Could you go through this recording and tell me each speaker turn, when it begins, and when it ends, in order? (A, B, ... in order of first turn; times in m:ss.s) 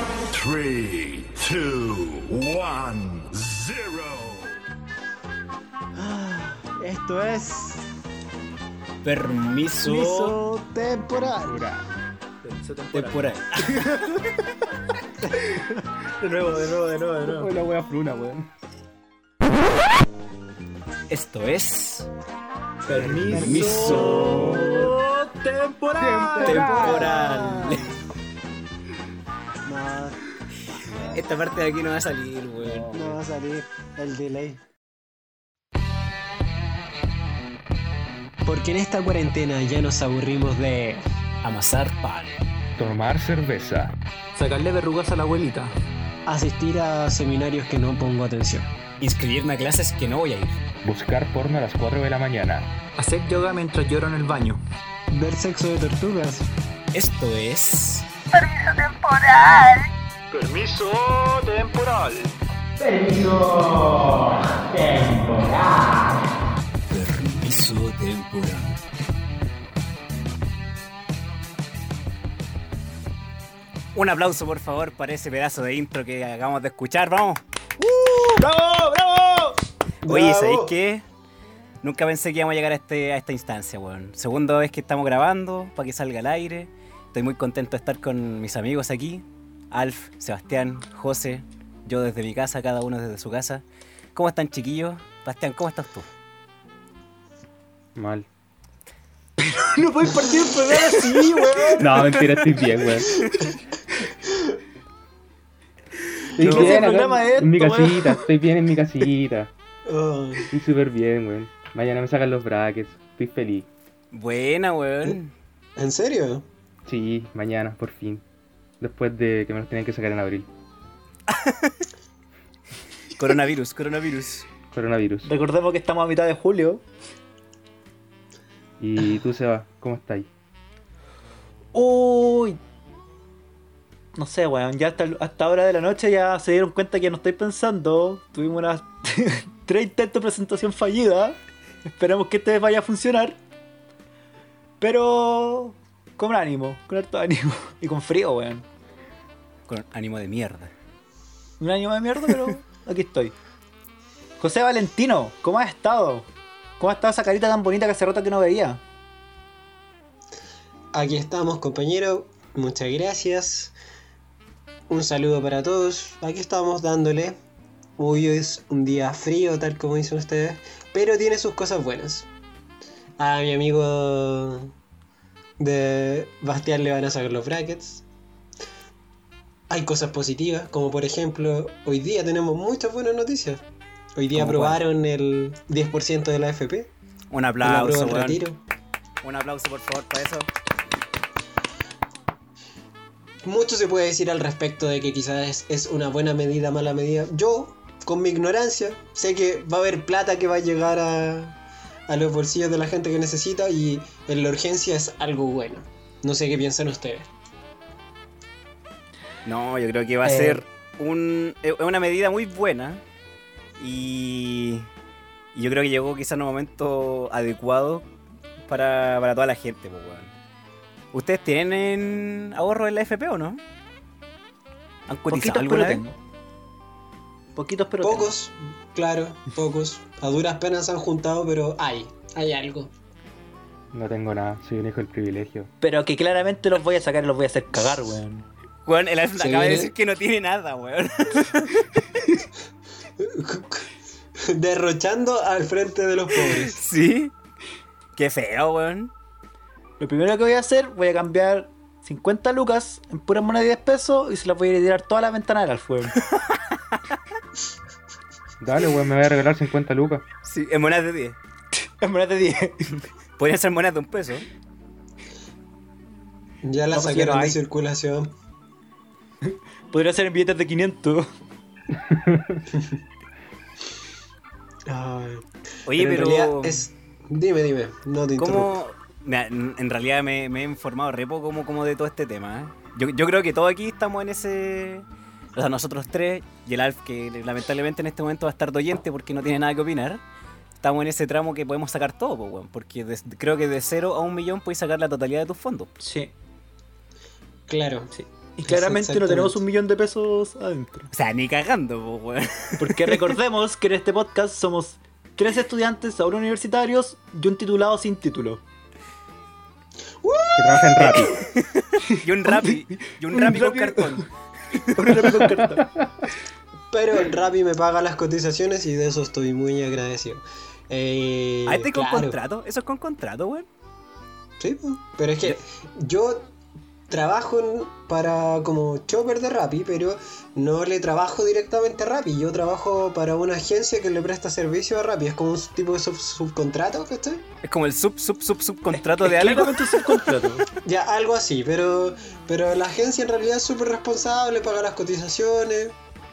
0:00.3-0:04.6 A
0:06.0-0:07.9 B
0:09.0-0:10.4 C
0:09.8-0:11.7 B
0:11.4-0:11.8 D
0:12.5-0:14.0 E
0:12.9-0:13.7 C
0:16.0-0:17.5 B
0:17.2-0:18.5 D
0:21.1-0:22.1 C
0:22.8-0:27.8 E
0:23.0-0:24.7 C
0:23.3-0:24.9 D
0:23.6-0:24.7 B
0:26.0-0:27.1 D
0:26.4-0:27.7 B
0:26.4-0:27.9 C
0:29.6-0:31.3 B
0:31.1-0:33.2 C
0:32.9-0:34.6 B
0:38.4-0:41.0 B
0:41.4-0:42.4 C
0:42.8-0:44.0 D
0:44.4-0:45.7 E
0:46.3-0:48.7 B
0:49.0-0:50.6 C
0:50.8-0:52.7 D
0:53.0-0:54.6 E
0:55.1-0:56.5 B
0:56.9-0:58.1 C
0:58.4-0:59.8 E
1:00.4-1:02.2 E
1:02.8-1:06.2 E
1:06.9-1:08.8 C
1:14.0-1:17.4 C
1:17.8-1:18.4 B
1:18.3-1:19.6 E
1:20.0-1:20.7 B
1:20.1-1:21.0 C
1:21.8-1:36.1 C
1:38.0-1:38.3 D
1:39.4-1:42.6 E
1:40.8-1:41.1 C
1:41.7-1:43.3 D
1:44.3-1:44.6 B
1:46.4-1:49.5 D
1:46.4-1:46.9 C
1:46.4-1:48.2 E
1:49.8-1:50.5 B
1:50.5-1:53.7 D
1:54.1-1:55.3 C
1:55.8-1:56.5 B
1:56.9-1:58.2 D
1:58.8-2:00.5 D
2:01.3-2:01.8 C
2:03.2-2:04.5 C
2:04.7-2:05.3 D
2:05.2-2:06.8 E
2:08.8-2:10.3 D
2:11.7-2:12.6 E
2:14.2-2:23.4 E
2:24.8-2:28.6 E
2:29.7-2:30.7 C
2:31.6-2:33.4 E
2:34.4-2:38.8 E
2:40.9-2:43.8 B
2:44.9-2:47.4 B
2:48.0-2:52.3 B
2:53.2-2:54.7 B
2:55.6-2:58.1 B
2:59.7-3:03.6 B
3:04.2-3:06.9 B
3:04.3-3:04.8 C
3:07.3-3:08.4 C
3:07.6-3:08.6 B
3:09.2-3:10.5 C
3:13.4-3:27.3 B
3:29.4-3:33.0 C
3:30.2-3:30.6 E
3:33.8-3:34.9 C
3:35.5-3:38.1 C
3:38.7-3:40.3 C
3:41.1-3:43.6 C
3:45.1-3:46.0 C
3:45.3-3:46.2 E
3:47.6-3:48.3 E
3:48.0-3:52.9 B
3:53.9-3:55.7 D
3:55.8-3:58.5 E
3:58.9-4:02.0 C
3:59.4-3:59.9 B
4:03.2-4:03.9 B
4:04.4-4:06.8 B
4:06.4-4:07.3 C
4:08.2-4:09.1 C
4:10.0-4:16.2 E
4:16.3-4:17.0 C
4:18.6-4:20.2 D
4:20.4-4:21.4 C
4:21.8-4:23.0 E
4:23.4-4:24.5 C
4:26.6-4:28.3 B
4:26.9-4:27.6 E
4:29.4-4:31.3 E
4:32.0-4:32.6 D
4:32.7-4:33.0 B
4:34.9-4:38.8 B
4:35.9-4:36.8 C
4:38.4-4:50.2 C
4:50.8-4:55.9 C
4:56.0-4:56.3 E
4:57.7-4:58.1 B
4:58.1-5:01.1 E
4:58.7-4:59.6 B
5:01.1-5:03.3 C
5:02.8-5:08.6 E
5:10.2-5:11.3 B
5:10.6-5:11.4 D
5:11.1-5:15.4 C
5:12.0-5:14.2 E
5:14.8-5:15.9 E
5:15.5-5:16.0 D
5:16.9-5:22.4 B
5:21.7-5:23.7 C
5:24.6-5:26.5 B
5:27.1-5:37.4 B
5:37.6-5:40.3 C
5:38.9-5:40.7 E
5:40.8-5:46.0 B